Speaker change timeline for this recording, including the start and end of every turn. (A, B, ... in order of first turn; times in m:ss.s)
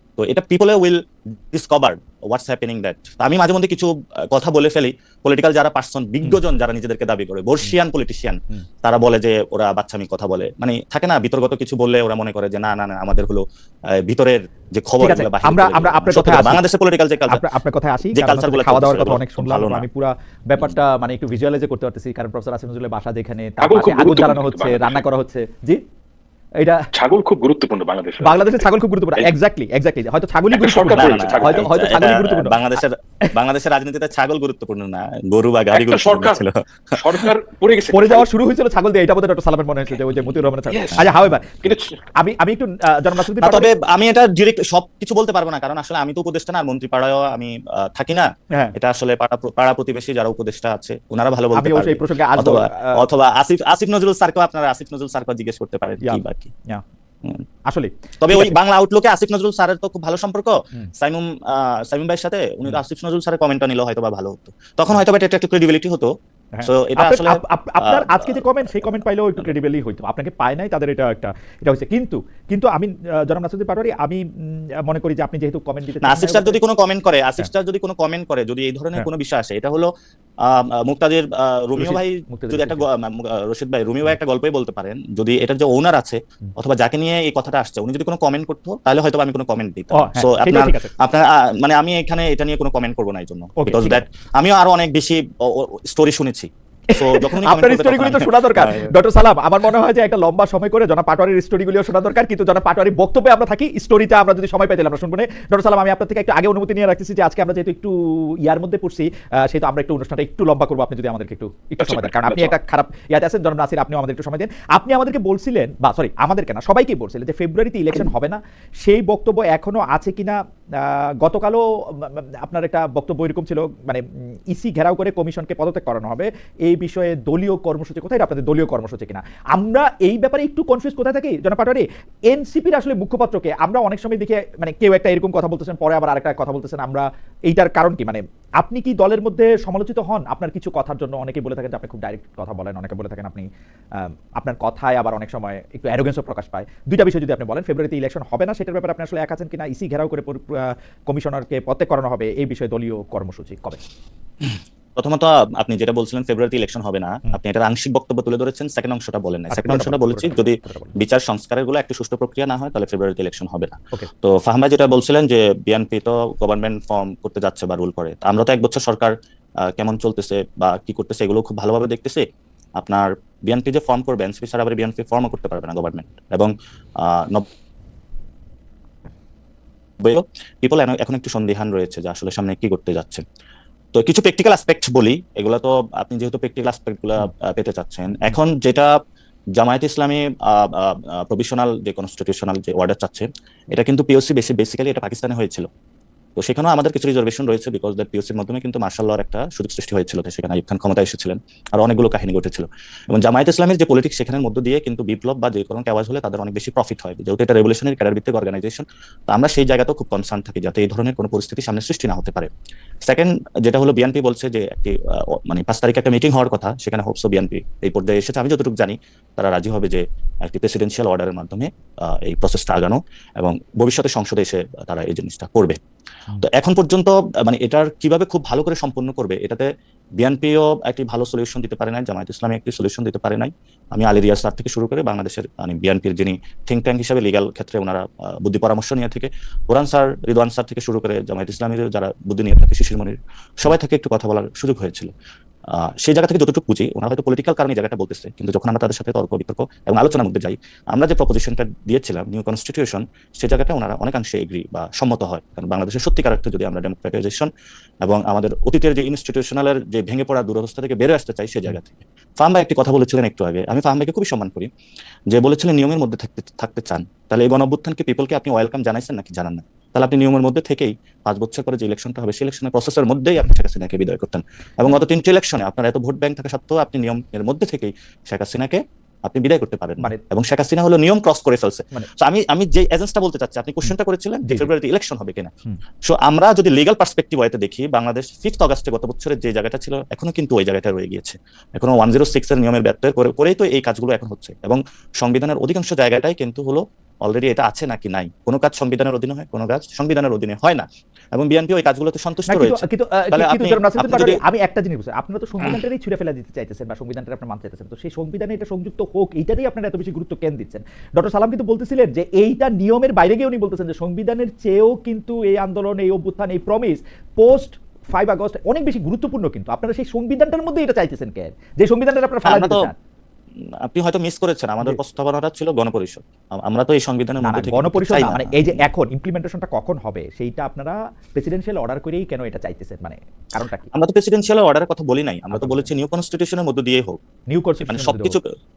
0:00.2-0:17.4 A
0:15.0-0:16.6 B
0:17.3-0:25.8 B
0:18.1-0:19.8 A
0:23.6-0:25.0 C
0:26.6-0:26.9 B
0:26.9-0:28.6 C
0:28.2-0:32.6 B
0:30.5-0:31.7 C
0:30.8-0:37.2 A
0:35.7-0:38.3 C
0:37.9-0:43.7 B
0:40.7-0:42.0 C
0:43.4-0:56.5 A
0:51.5-0:53.0 B
0:56.0-0:56.8 B
0:57.7-0:58.5 B
0:58.2-1:06.1 A
1:06.5-1:16.6 B
1:06.6-1:08.4 A
1:16.0-1:38.9 A
1:21.8-1:22.8 B
1:29.9-1:30.9 B
1:33.6-1:34.0 B
1:36.9-2:33.8 B
1:51.8-1:52.5 C
2:34.5-2:52.2 A
2:39.5-2:40.9 B
2:52.8-2:57.5 A
3:00.0-3:03.2 A
3:03.9-3:08.9 A
3:09.5-3:15.7 A
3:16.4-3:32.5 A
3:33.0-3:45.8 A
3:46.4-4:05.1 A
4:05.7-4:17.5 A
4:18.0-4:24.7 A
4:25.3-4:45.5 A
4:46.0-5:04.4 A
5:02.5-5:22.9 B
5:22.4-5:22.9 A
5:23.7-5:28.8 A
5:27.4-5:33.9 B
5:33.9-5:37.2 A
5:35.5-5:35.9 B
5:37.5-5:38.4 B
5:37.8-5:38.5 A